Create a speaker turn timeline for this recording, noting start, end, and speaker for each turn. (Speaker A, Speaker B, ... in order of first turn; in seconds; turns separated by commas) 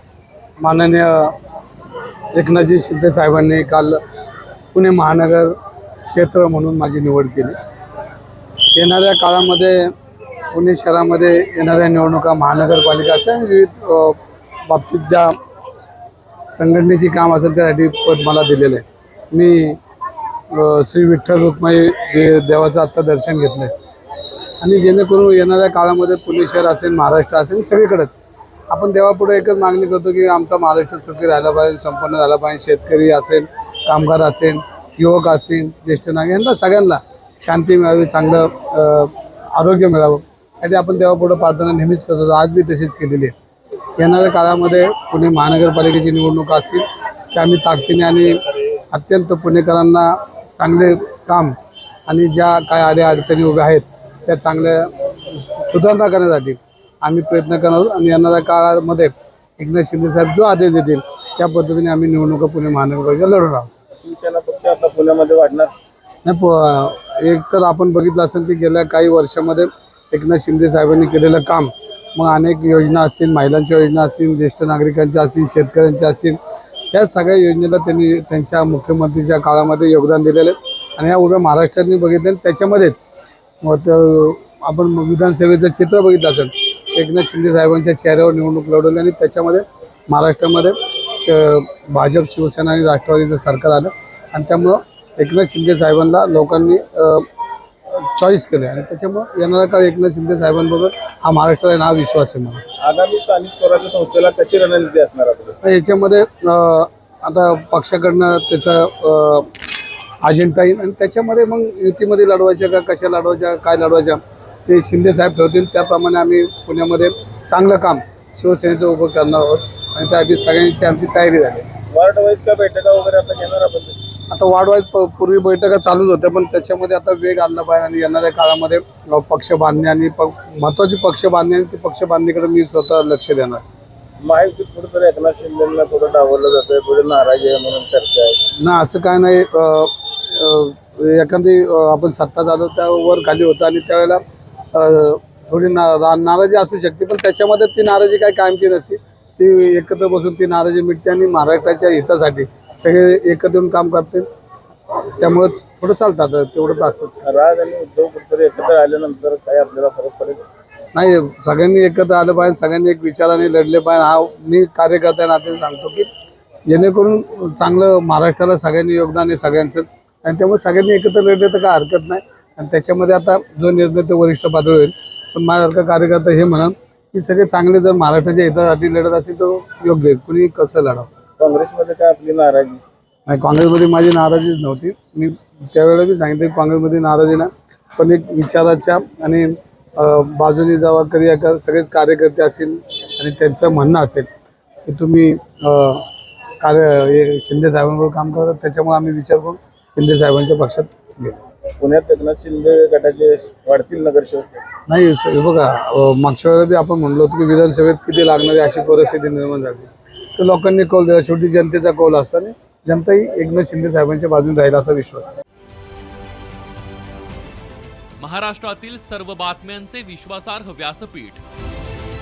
Speaker A: 0.6-1.4, Speaker A: 2.3-4.0, Speaker A: 4.7-7.5, Speaker A: 8.8-9.9, Speaker A: 10.5-15.4, Speaker A: 16.5-19.8, Speaker A: 20.5-23.7, Speaker A: 24.6-28.2, Speaker A: 28.7-43.4, Speaker A: 44.0-51.6, Speaker A: 52.1-63.7, Speaker B: 64.0-65.7, Speaker A: 66.2-76.4, Speaker A: 76.9-83.0, Speaker A: 83.6-97.3, Speaker A: 98.0-102.6, Speaker B: 102.8-105.6, Speaker A: 105.6-109.5, Speaker A: 110.2-121.7, Speaker B: 121.9-124.0, Speaker A: 124.3-133.6, Speaker B: 134.2-138.4, Speaker A: 138.6-144.2, Speaker A: 144.7-154.3, Speaker A: 155.0-157.2, Speaker B: 157.2-160.4, Speaker A: 160.9-166.1, Speaker A: 166.7-181.1, Speaker B: 181.4-182.8, Speaker A: 183.3-194.3, Speaker A: 194.9-196.1, Speaker A: 196.6-201.4, Speaker B: 201.8-204.7, Speaker A: 204.9-215.3, Speaker C: 218.2-221.4